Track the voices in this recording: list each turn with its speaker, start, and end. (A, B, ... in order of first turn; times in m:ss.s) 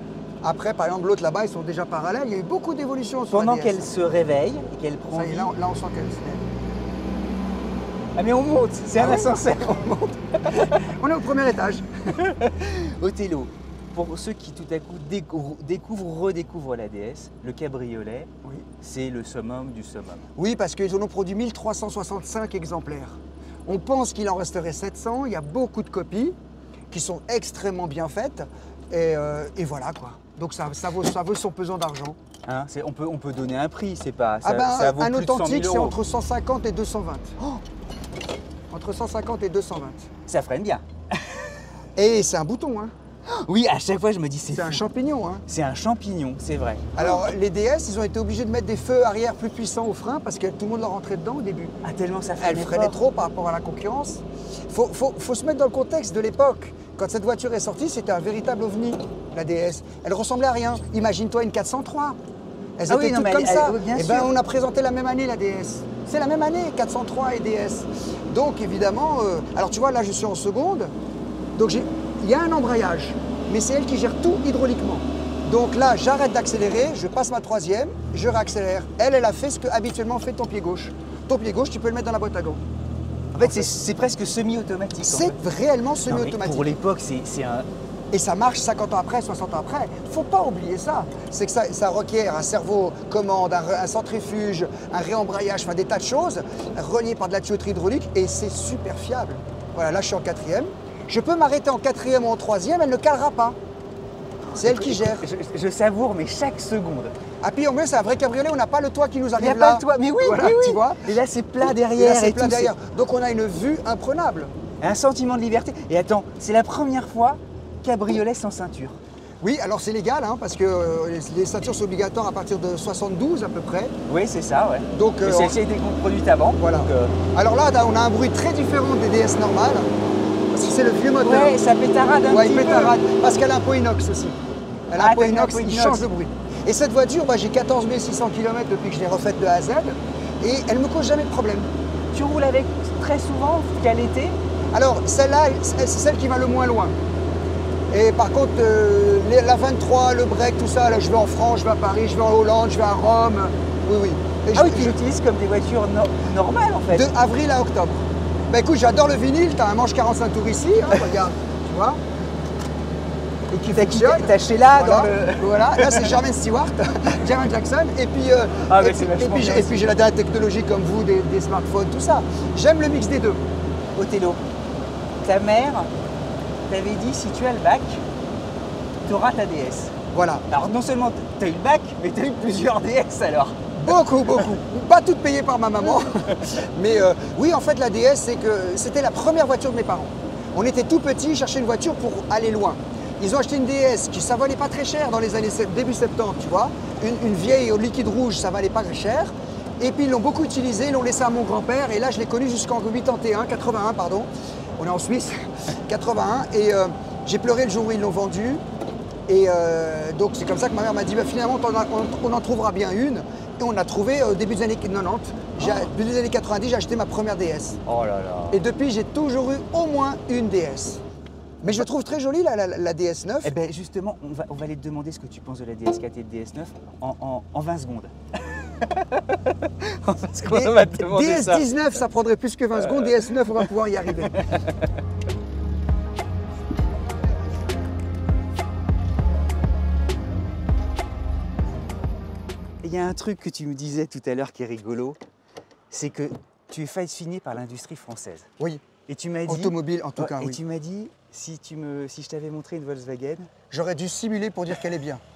0:00.4-0:03.9 A
0:03.3-0:05.5 B
0:05.1-0:06.5 A
0:08.2-0:10.8 B
0:09.0-0:09.9 A
0:10.6-0:11.9 A
0:12.1-0:18.3 B
0:18.8-0:20.3 B
0:20.4-0:26.4 A
0:26.9-0:32.2 A
0:32.4-0:36.0 B
0:34.4-0:37.4 A
0:38.7-0:40.1 A
0:40.2-0:41.6 B
0:42.0-0:42.9 A
0:43.3-0:44.8 B
0:44.5-0:45.4 A
0:45.4-0:47.3 B
0:47.0-0:51.8 A
0:51.8-0:53.0 B
0:52.4-1:02.2 A
1:02.8-1:10.9 A
1:02.9-1:04.3 B
1:11.5-1:22.6 A
1:23.3-1:25.4 B
1:23.4-1:23.7 A
1:25.0-1:26.7 A
1:26.0-1:27.7 B
1:28.1-1:43.6 A
1:44.5-1:47.1 B
1:44.6-1:45.2 A
1:47.4-1:51.1 A
1:49.4-1:52.7 B
1:51.7-1:54.5 A
1:54.8-1:59.0 B
1:59.4-2:03.9 A
2:04.1-2:07.2 B
2:04.9-2:05.6 A
2:06.6-2:09.9 A
2:10.5-2:11.6 A
2:11.2-2:13.0 B
2:12.3-2:21.7 A
2:14.9-2:16.1 B
2:22.1-2:24.4 B
2:24.7-2:26.9 A
2:27.9-2:35.0 A
2:34.5-2:37.1 B
2:36.9-2:42.0 A
2:43.5-2:53.4 A
2:43.7-2:46.2 B
2:48.6-2:49.8 B
2:53.9-2:54.4 B
2:55.2-2:55.9 B
2:56.7-2:58.0 B
2:59.0-3:00.0 B
3:00.1-3:00.4 A
3:00.5-3:03.6 B
3:03.7-3:28.6 A
3:06.0-3:06.4 B
3:29.3-3:37.8 A
3:35.6-3:35.9 B
3:37.8-3:38.6 B
3:38.5-3:41.0 A
3:41.6-3:43.6 A
3:43.4-3:51.7 B
3:50.4-3:54.6 A
3:52.8-3:53.7 B
3:54.3-3:54.9 B
4:02.8-4:05.2 B
4:05.9-4:08.5 B
4:08.6-4:08.8 A
4:09.0-4:13.5 B
4:09.4-4:10.6 A
4:13.7-4:15.2 A